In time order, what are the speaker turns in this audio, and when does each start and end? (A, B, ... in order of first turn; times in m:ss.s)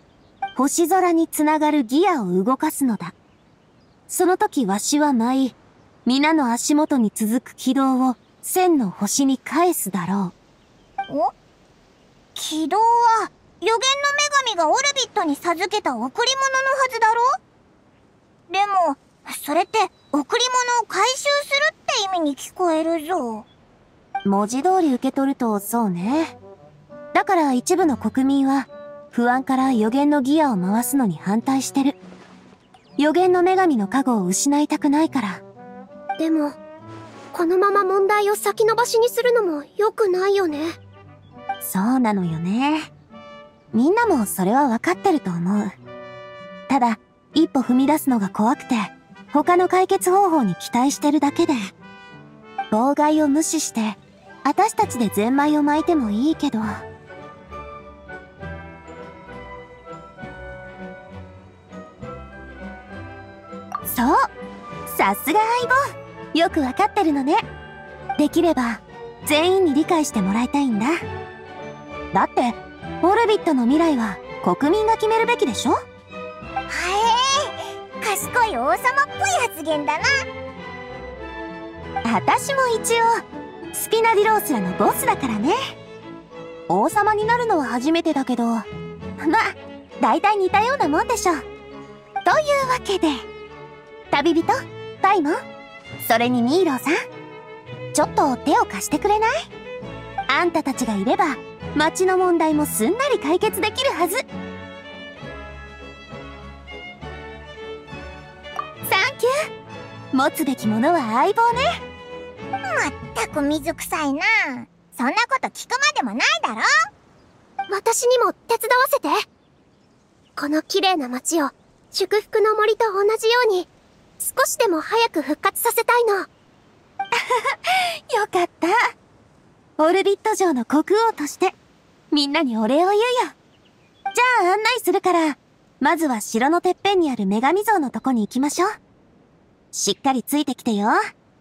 0:00.5-0:03.1 A
0:04.1-0:10.3 A
0:12.3-0:17.3 B
0:18.5-0:23.4 B
0:24.2-0:26.4 A
0:27.1-0:32.0 A
0:33.0-0:35.4 A
0:36.2-0:36.6 C
0:37.3-0:40.7 C
0:41.6-0:42.9 A
0:43.7-0:45.7 A
0:46.7-0:51.7 A
0:52.7-0:56.7 A
1:03.8-1:04.2 A
1:04.9-1:05.8 A
1:06.3-1:07.4 A
1:08.2-1:10.9 A
1:12.1-1:15.8 A
1:16.7-1:20.1 B
1:22.0-1:23.2 A
1:23.7-1:25.6 A
1:26.7-1:28.6 A
1:29.2-1:31.4 A
1:32.2-1:33.2 A
1:34.1-1:35.4 A
1:36.0-1:36.9 A
1:37.9-1:39.3 A
1:40.3-1:44.2 A
1:48.8-1:49.3 A
1:50.1-1:51.8 A
1:52.6-1:56.7 B
1:57.7-1:59.1 C
2:00.4-2:06.3 C
2:07.1-2:08.8 A
2:09.8-2:11.6 A
2:12.1-2:13.3 A
2:14.1-2:18.7 A
2:19.7-2:21.0 A